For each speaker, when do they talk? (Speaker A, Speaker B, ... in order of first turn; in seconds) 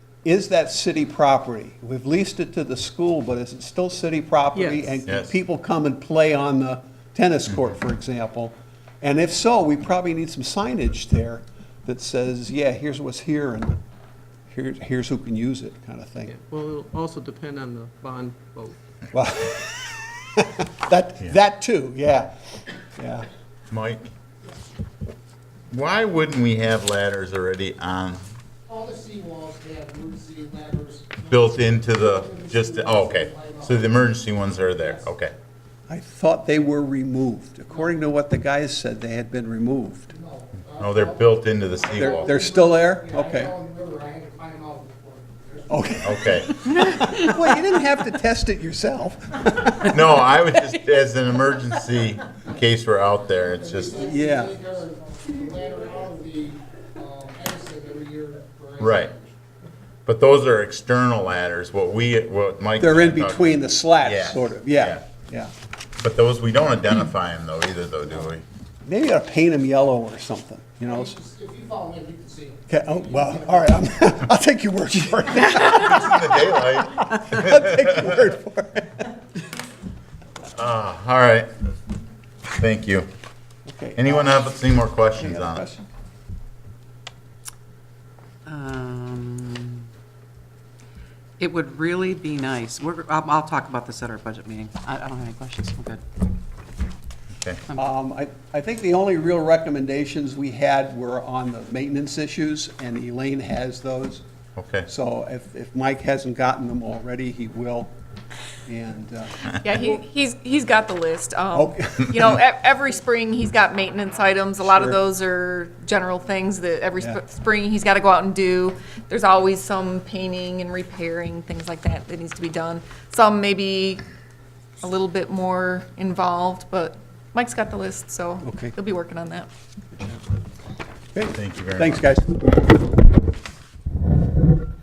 Speaker A: 0.2-13.8, 14.5-16.4, 19.1-22.3, 23.0-23.3, 35.9-40.1, 42.0-43.5, 45.7-49.9, 54.0-54.6, 62.8-65.5, 68.9-71.2, 72.7-79.1, 83.7-84.6, 85.1-85.9, 97.8-104.2, 104.9-107.9, 108.7-109.5, 111.5-112.4, 114.6-115.0, 128.4-128.7, 129.9-130.2, 131.2-132.4
Speaker B: 4.5-5.0, 16.3-18.8
Speaker C: 5.1-5.3, 23.7-24.1, 25.7-28.3, 31.3-35.3, 40.8-42.3, 46.0-46.6, 49.9-54.1, 58.8-59.1, 60.1-65.0, 66.0-68.5, 75.6-78.2, 80.5-81.5, 82.5-83.1, 84.0-85.6, 104.6-104.9, 131.4-132.0
Speaker D: 28.7-31.3, 32.8-33.6, 40.2-40.7, 41.8-45.7, 54.1-59.3, 71.0-73.1
Speaker E: 88.5-89.9, 91.4-96.0
Speaker F: 109.5-124.0, 124.8-129.5